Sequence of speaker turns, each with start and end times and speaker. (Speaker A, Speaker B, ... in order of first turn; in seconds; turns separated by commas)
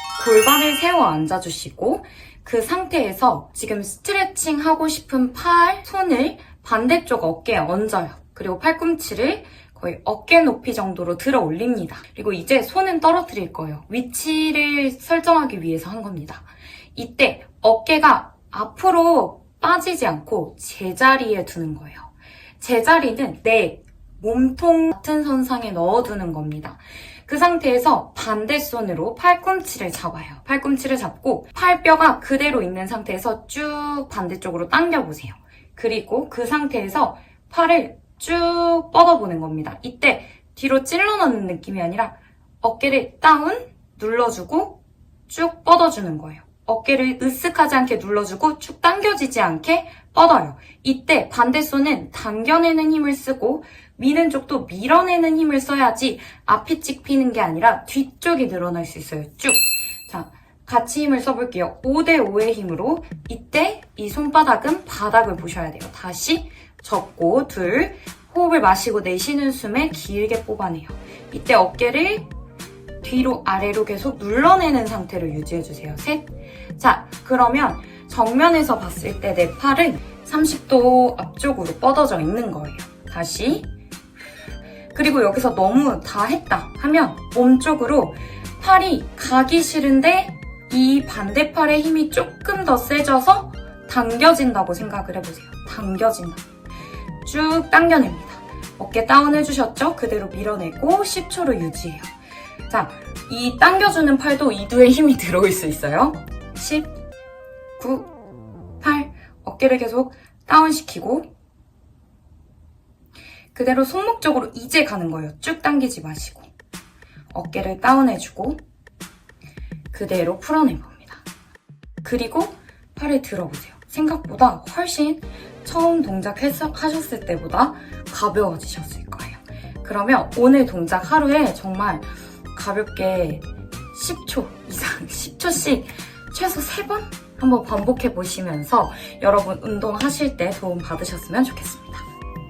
Speaker A: 0.2-72.3, Speaker A: 73.0-83.7, Speaker A: 84.9-96.4, Speaker A: 97.2-102.1, Speaker A: 102.7-106.9, Speaker A: 107.8-108.1, Speaker A: 108.8-111.3, Speaker A: 113.5-116.5, Speaker A: 117.3-118.6, Speaker A: 119.9-121.2, Speaker A: 122.0-142.0